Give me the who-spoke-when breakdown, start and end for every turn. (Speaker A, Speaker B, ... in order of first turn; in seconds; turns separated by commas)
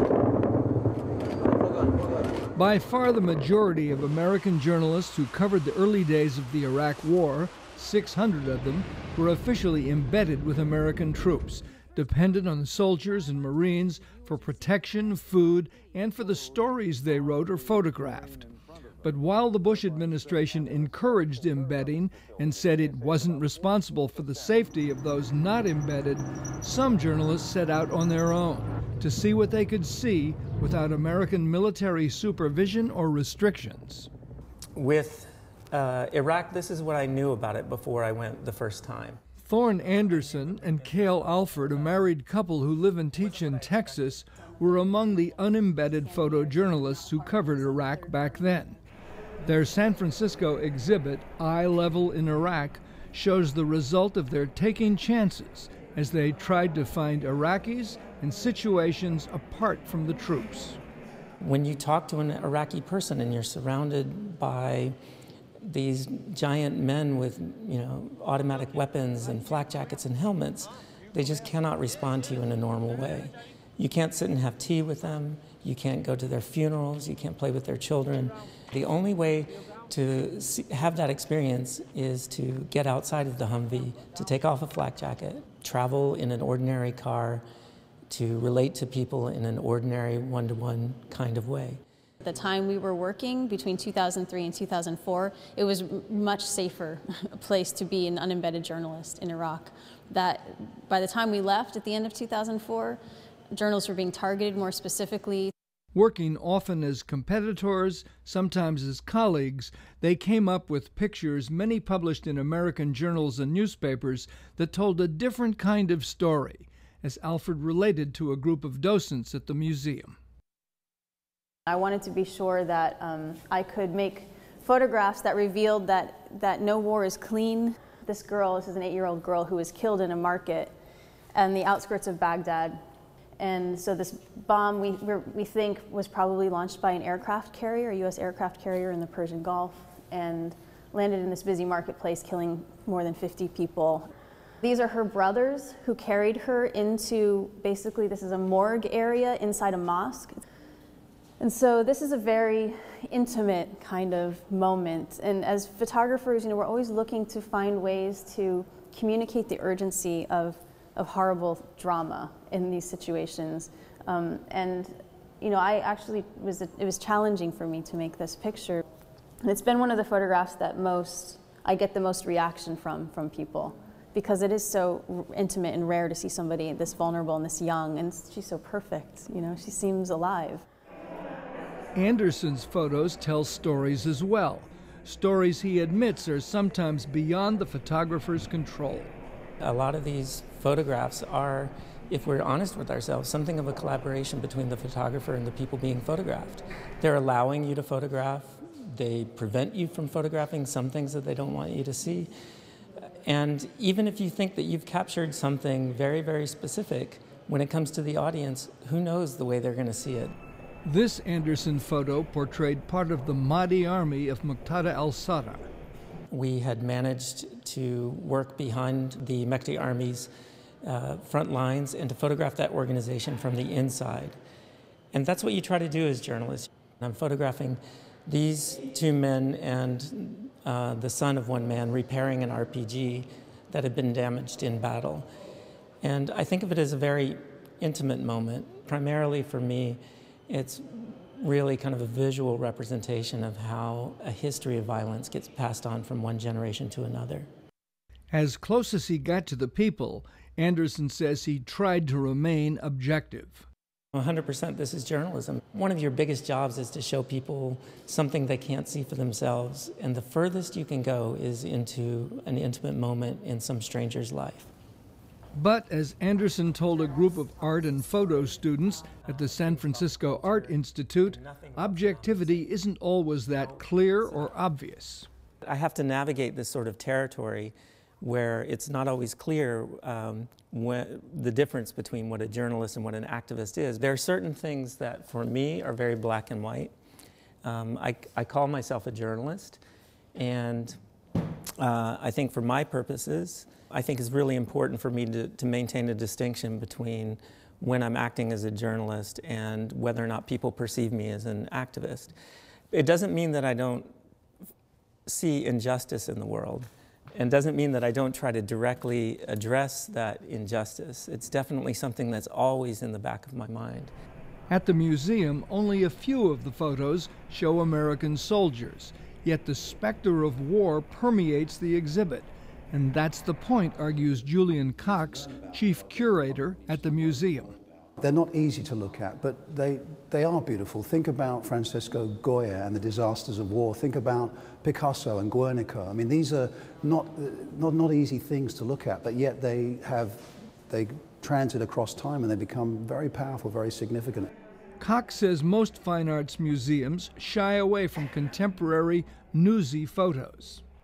Speaker A: 2.5-18.4, Speaker A: 19.0-34.1, Speaker B: 34.8-39.2, Speaker A: 39.4-48.8, Speaker A: 49.4-60.8, Speaker B: 61.4-64.9, Speaker B: 65.6-87.4, Speaker B: 88.1-91.8, Speaker C: 92.2-103.0, Speaker C: 103.5-105.5, Speaker A: 105.9-120.2, Speaker C: 121.7-130.7, Speaker C: 131.3-132.8, Speaker C: 133.4-144.1, Speaker C: 144.6-150.4, Speaker C: 151.4-168.8, Speaker C: 169.4-180.6, Speaker A: 181.9-189.1, Speaker B: 189.6-202.3, Speaker B: 203.2-210.3, Speaker A: 210.8-215.7, Speaker B: 216.3-220.3, Speaker B: 220.8-224.4, Speaker B: 225.1-235.3, Speaker B: 236.0-247.5, Speaker A: 248.3-253.7, Speaker B: 254.1-264.7, Speaker A: 265.5-275.3, Speaker B: 269.1-272.7, Speaker B: 273.5-274.5, Speaker B: 275.6-286.9, Speaker B: 287.6-289.8, Speaker B: 290.4-291.0, Speaker B: 291.8-302.3, Speaker B: 302.9-304.1, Speaker B: 305.3-314.1, Speaker A: 314.7-327.8, Speaker D: 328.2-344.5, Speaker A: 345.0-350.8